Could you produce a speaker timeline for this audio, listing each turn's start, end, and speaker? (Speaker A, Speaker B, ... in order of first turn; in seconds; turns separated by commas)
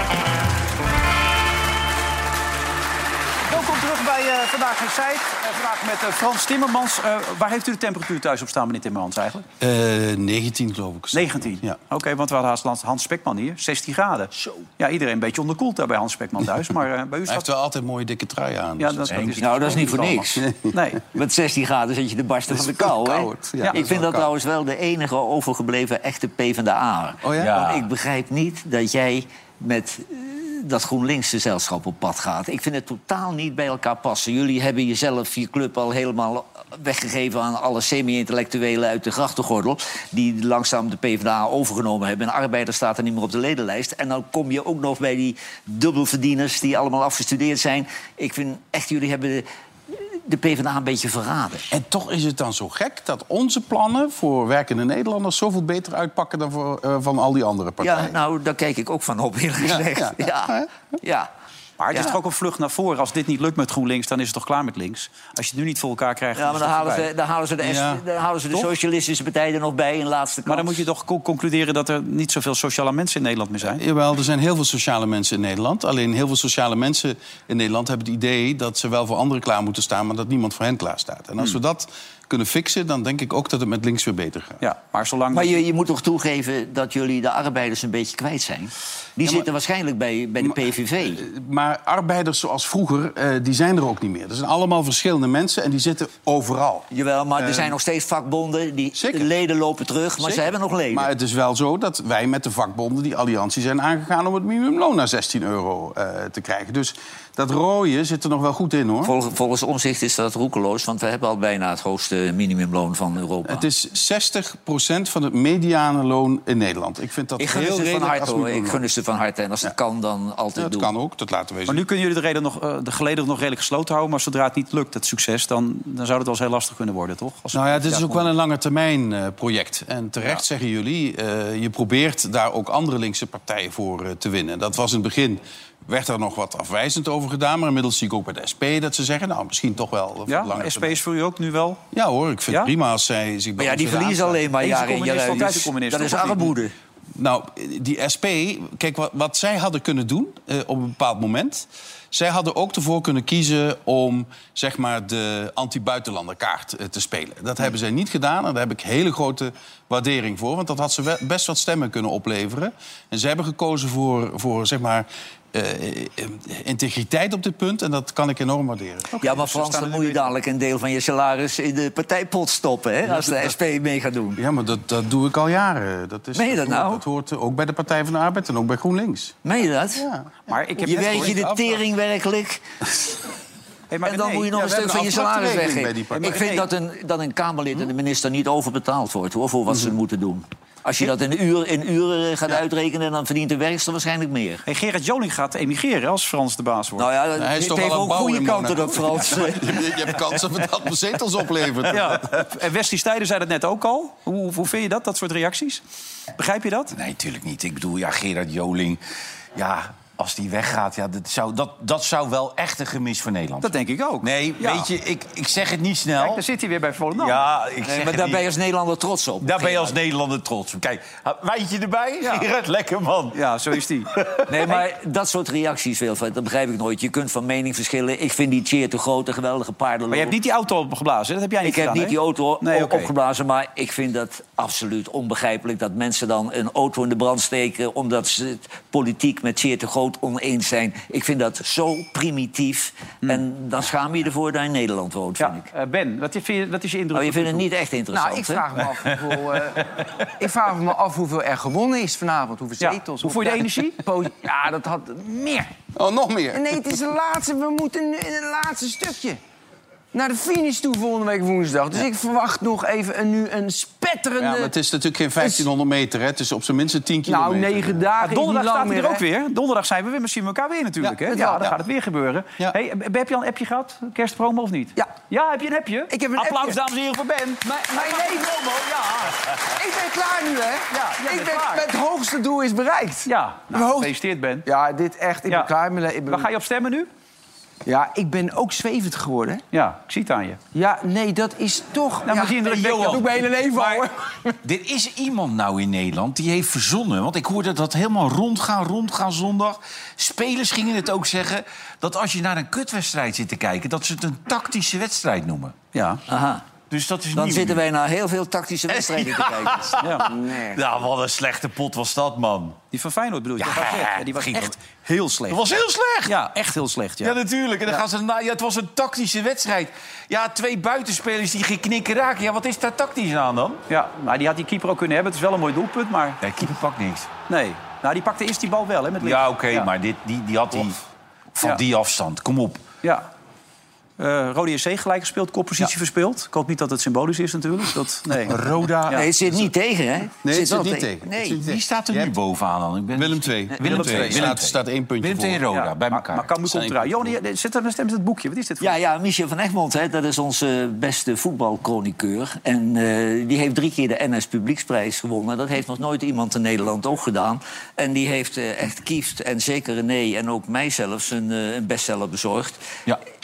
Speaker A: 3.5-9.4, Speaker B: 9.6-11.8, Speaker A: 11.1-17.5, Speaker B: 17.3-20.8, Speaker A: 18.8-20.2, Speaker C: 19.1-19.4, Speaker D: 19.4-20.4, Speaker A: 20.7-21.0, Speaker D: 21.1-51.6, Speaker B: 22.5-24.3, Speaker B: 27.2-27.6, Speaker C: 27.4-27.9, Speaker B: 51.7-58.1, Speaker D: 57.8-61.3, Speaker B: 59.6-60.7, Speaker A: 61.8-67.1, Speaker D: 66.3-70.8, Speaker B: 67.6-68.7, Speaker A: 70.5-73.8, Speaker B: 73.7-84.6, Speaker A: 84.6-85.6, Speaker D: 85.3-91.2, Speaker B: 90.4-97.7, Speaker D: 96.9-101.1, Speaker B: 99.0-99.3, Speaker B: 100.2-109.1, Speaker D: 109.0-113.7, Speaker B: 113.5-118.8, Speaker D: 117.4-120.9, Speaker B: 120.5-121.8, Speaker A: 121.7-128.3, Speaker B: 127.5-141.0, Speaker A: 140.3-141.8, Speaker B: 141.9-144.4, Speaker A: 142.5-142.7, Speaker D: 143.6-146.7, Speaker A: 144.6-146.5, Speaker B: 147.1-169.6, Speaker D: 169.2-174.4, Speaker A: 169.3-170.3, Speaker B: 173.1-173.6, Speaker B: 174.3-179.4, Speaker D: 176.3-177.0, Speaker D: 179.4-180.0, Speaker B: 179.9-181.8, Speaker A: 180.5-181.4, Speaker D: 180.8-182.6, Speaker A: 183.9-184.5, Speaker D: 184.0-194.6, Speaker B: 184.5-186.4, Speaker A: 186.2-186.7, Speaker A: 194.7-197.1, Speaker D: 197.0-199.8, Speaker B: 197.4-202.5, Speaker A: 201.9-205.8, Speaker A: 206.4-206.9, Speaker C: 206.9-209.0, Speaker C: 209.5-216.4, Speaker A: 213.6-214.9, Speaker A: 216.2-217.4, Speaker C: 217.2-218.4, Speaker D: 217.8-219.9, Speaker C: 219.4-223.4, Speaker A: 222.2-222.4, Speaker A: 223.3-224.1, Speaker C: 224.2-224.4, Speaker D: 224.5-230.3, Speaker A: 230.1-233.1, Speaker D: 231.6-245.7, Speaker A: 245.4-247.7, Speaker D: 247.1-248.6, Speaker E: 248.1-255.7, Speaker C: 249.3-249.6, Speaker A: 252.8-254.0, Speaker B: 255.9-257.0, Speaker E: 256.5-259.4, Speaker E: 260.1-264.7, Speaker B: 264.4-268.1, Speaker E: 265.4-265.6, Speaker E: 267.2-269.2, Speaker A: 268.2-279.5, Speaker E: 271.0-271.8, Speaker E: 276.1-276.8, Speaker E: 277.6-284.1, Speaker A: 280.9-281.9, Speaker A: 283.2-284.6, Speaker E: 284.6-286.5, Speaker A: 286.3-287.1, Speaker E: 287.9-289.6, Speaker A: 289.7-290.6, Speaker E: 290.7-294.6, Speaker A: 292.2-294.0, Speaker C: 292.7-293.4, Speaker C: 294.6-305.7, Speaker A: 305.9-306.2, Speaker D: 306.3-306.6, Speaker C: 306.9-307.8, Speaker D: 307.3-310.0, Speaker C: 308.9-312.8, Speaker A: 310.0-310.3, Speaker E: 310.3-310.8, Speaker A: 312.9-315.6, Speaker C: 313.6-314.8, Speaker C: 315.5-316.4, Speaker A: 316.3-317.3, Speaker C: 317.2-323.8, Speaker A: 323.9-326.4, Speaker C: 326.4-327.3, Speaker A: 327.5-329.9, Speaker C: 329.2-331.0, Speaker C: 331.5-332.8, Speaker A: 333.0-333.3, Speaker A: 334.2-338.6, Speaker C: 338.4-339.7, Speaker D: 339.1-341.6, Speaker B: 340.4-342.3, Speaker C: 341.6-346.5, Speaker B: 343.1-345.6, Speaker A: 343.8-344.5, Speaker A: 345.7-348.9, Speaker B: 346.6-347.3, Speaker D: 348.8-362.8